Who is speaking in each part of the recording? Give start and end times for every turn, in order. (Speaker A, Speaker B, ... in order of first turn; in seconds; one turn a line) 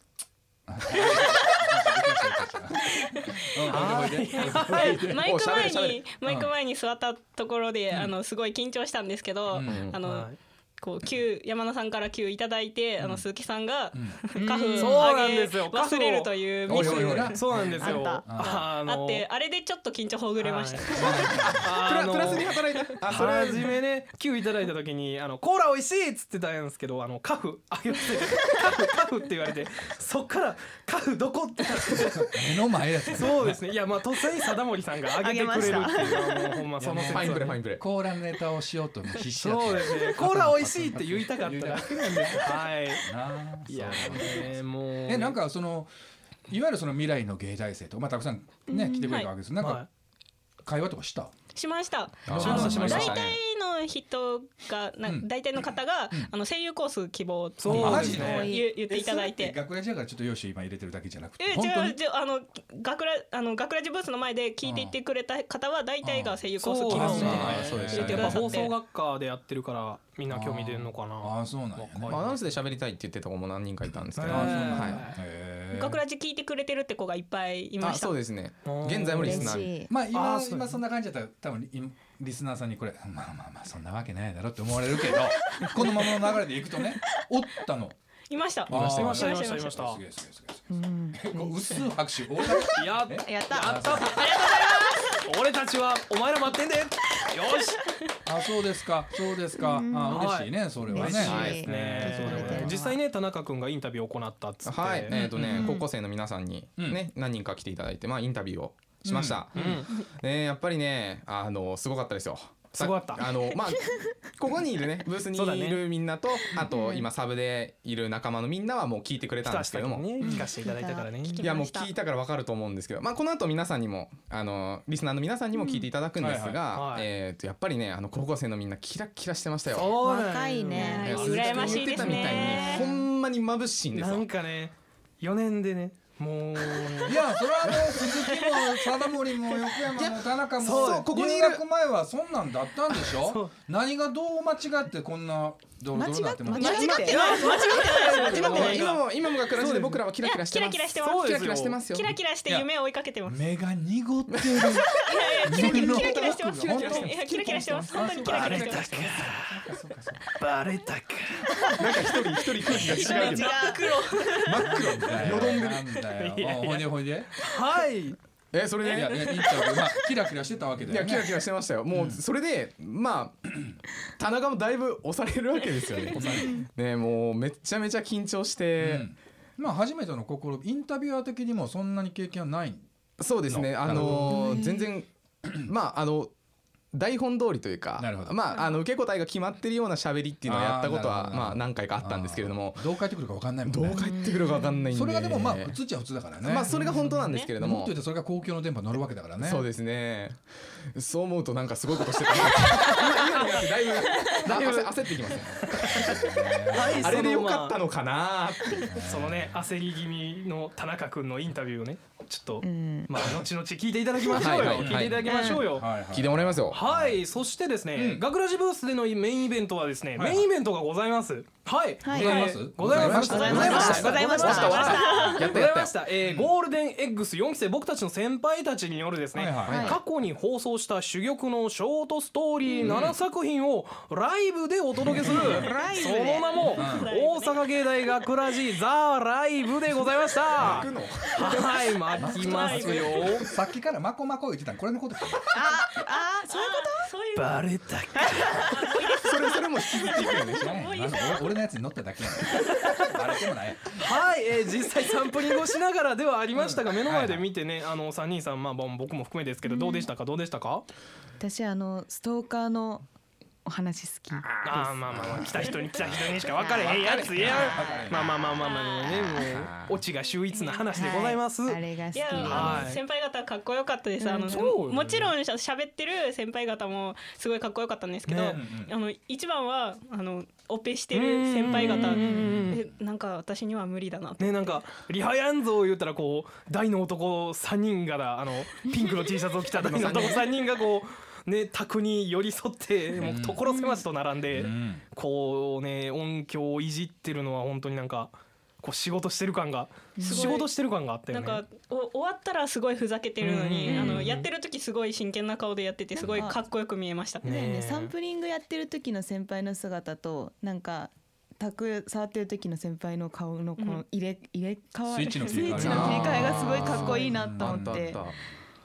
Speaker A: 0.7-5.3
Speaker B: 1.2-1.6
Speaker B: 3.0-21.4
Speaker C: 3.7-5.1
Speaker D: 5.2-6.1
Speaker A: 6.2-6.5
Speaker A: 9.5-9.9
Speaker D: 9.6-10.0
Speaker C: 10.1-10.4
Speaker A: 13.9-15.0
Speaker C: 14.4-19.2
Speaker A: 16.7-18.7
Speaker C: 20.4-20.9
Speaker D: 20.9-23.8
Speaker A: 21.0-21.6
Speaker C: 21.6-37.6
Speaker A: 32.2-33.6
Speaker E: 35.2-36.6
Speaker D: 35.5-37.8
Speaker A: 37.8-45.9
Speaker C: 39.4-43.0
Speaker C: 43.7-45.4
Speaker A: 46.5-49.9
Speaker B: 49.0-49.3
Speaker C: 49.6-49.9
Speaker A: 50.6-51.3
Speaker B: 51.5-59.5
Speaker A: 52.3-53.1
Speaker D: 52.3-53.4
Speaker C: 52.5-53.2
Speaker C: 57.6-58.5
Speaker A: 57.6-62.0
Speaker E: 58.3-58.6
Speaker B: 61.4-68.8
Speaker A: 64.6-65.0
Speaker A: 66.0-68.5
Speaker C: 66.6-72.3
Speaker D: 67.4-68.4
Speaker A: 70.3-72.2
Speaker D: 72.1-75.1
Speaker C: 74.2-75.2
Speaker A: 74.2-76.0
Speaker B: 75.7-78.2
Speaker D: 77.8-79.8
Speaker C: 78.6-80.8
Speaker E: 79.2-79.9
Speaker A: 79.9-88.0
Speaker B: 88.3-89.7
Speaker A: 88.7-94.1
Speaker D: 88.7-89.2
Speaker C: 89.0-90.0
Speaker E: 90.7-91.6
Speaker C: 92.8-94.5
Speaker E: 93.3-93.7
Speaker B: 94.1-95.2
Speaker C: 95.3-97.8
Speaker A: 98.3-102.8
Speaker E: 99.7-100.2
Speaker C: 100.1-105.2
Speaker E: 100.9-103.0
Speaker D: 101.1-101.7
Speaker D: 104.7-120.2
Speaker A: 105.4-105.7
Speaker A: 109.0-109.8
Speaker C: 109.5-109.9
Speaker C: 112.8-113.3
Speaker C: 115.3-115.9
Speaker C: 119.4-121.4
Speaker B: 120.9-121.9
Speaker D: 121.4-130.1
Speaker E: 125.6-125.8
Speaker A: 126.2-126.6
Speaker C: 126.7-127.1
Speaker C: 129.7-132.7
Speaker E: 130.2-131.0
Speaker B: 130.7-132.9
Speaker D: 130.9-134.3
Speaker C: 133.9-137.3
Speaker A: 137.1-146.9
Speaker C: 140.6-141.1
Speaker D: 140.7-141.6
Speaker C: 142.9-143.5
Speaker E: 145.9-147.2
Speaker B: 146.5-148.8
Speaker C: 146.7-150.1
Speaker D: 146.7-147.2
Speaker D: 148.2-152.7
Speaker B: 150.2-151.2
Speaker C: 151.0-151.8
Speaker B: 151.8-153.4
Speaker A: 153.2-157.3
Speaker D: 154.3-154.8
Speaker B: 155.1-159.1
Speaker D: 155.9-158.0
Speaker C: 157.5-159.5
Speaker A: 157.9-160.2
Speaker C: 160.4-161.7
Speaker D: 161.7-163.6
Speaker B: 162.7-164.6
Speaker C: 162.8-163.2
Speaker E: 163.1-163.8
Speaker D: 164.3-165.9
Speaker A: 164.7-167.3
Speaker C: 166.2-168.2
Speaker D: 168.5-169.4
Speaker A: 168.9-171.4
Speaker B: 169.0-169.8
Speaker D: 170.9-173.5
Speaker A: 171.9-172.2
Speaker D: 174.2-179.1
Speaker A: 176.1-176.6
Speaker A: 178.8-182.9
Speaker D: 183.2-186.3
Speaker A: 183.5-184.5
Speaker D: 186.9-192.9
Speaker A: 188.0-188.4
Speaker A: 190.4-194.1
Speaker D: 193.7-195.8
Speaker A: 194.9-196.8
Speaker D: 196.4-197.9
Speaker C: 196.7-197.3
Speaker B: 196.7-197.5
Speaker A: 197.6-199.7
Speaker D: 199.4-208.9
Speaker C: 202.7-203.4
Speaker C: 204.4-205.2
Speaker A: 205.9-207.2
Speaker C: 206.7-207.8
Speaker A: 208.9-209.6
Speaker C: 208.9-216.0
Speaker E: 212.6-213.1
Speaker D: 214.2-216.8
Speaker A: 214.6-215.0
Speaker A: 215.6-217.3
Speaker C: 216.7-243.4
Speaker A: 217.9-218.3
Speaker A: 220.2-220.5
Speaker A: 222.1-224.2
Speaker D: 222.9-225.9
Speaker B: 223.2-225.4
Speaker E: 224.1-224.8
Speaker A: 226.2-226.5
Speaker A: 229.3-229.9
Speaker D: 229.7-230.0
Speaker D: 232.8-233.2
Speaker A: 235.1-235.7
Speaker B: 235.6-237.7
Speaker A: 236.8-237.1
Speaker A: 240.6-240.9
Speaker D: 240.6-241.9
Speaker A: 242.2-245.5
Speaker B: 242.2-243.3
Speaker E: 245.6-247.0
Speaker B: 245.8-247.6
Speaker C: 247.3-248.7
Speaker B: 248.4-251.6
Speaker D: 249.2-250.7
Speaker A: 250.6-254.0
Speaker C: 252.6-253.1
Speaker C: 254.0-260.9
Speaker A: 256.6-257.5
Speaker E: 261.4-263.1
Speaker E: 263.6-264.5
Speaker D: 264.3-265.4
Speaker C: 264.6-273.0
Speaker A: 265.2-265.6
Speaker A: 266.7-268.3
Speaker B: 267.6-269.2
Speaker D: 269.1-270.0
Speaker B: 270.5-270.9
Speaker E: 270.9-272.8
Speaker B: 272.1-284.7
Speaker C: 274.2-275.4
Speaker C: 278.3-278.6
Speaker A: 278.4-278.9
Speaker C: 281.1-282.8
Speaker A: 282.1-282.9
Speaker C: 284.4-301.6
Speaker D: 289.8-290.5
Speaker A: 293.2-293.7
Speaker A: 294.5-295.0
Speaker E: 300.2-300.5
Speaker B: 300.2-300.7
Speaker B: 301.3-307.6
Speaker C: 303.4-304.5
Speaker E: 306.3-306.6
Speaker C: 307.4-308.1
Speaker E: 307.5-318.1
Speaker B: 313.8-314.1
Speaker A: 315.1-318.2
Speaker B: 315.1-316.1
Speaker D: 315.8-318.4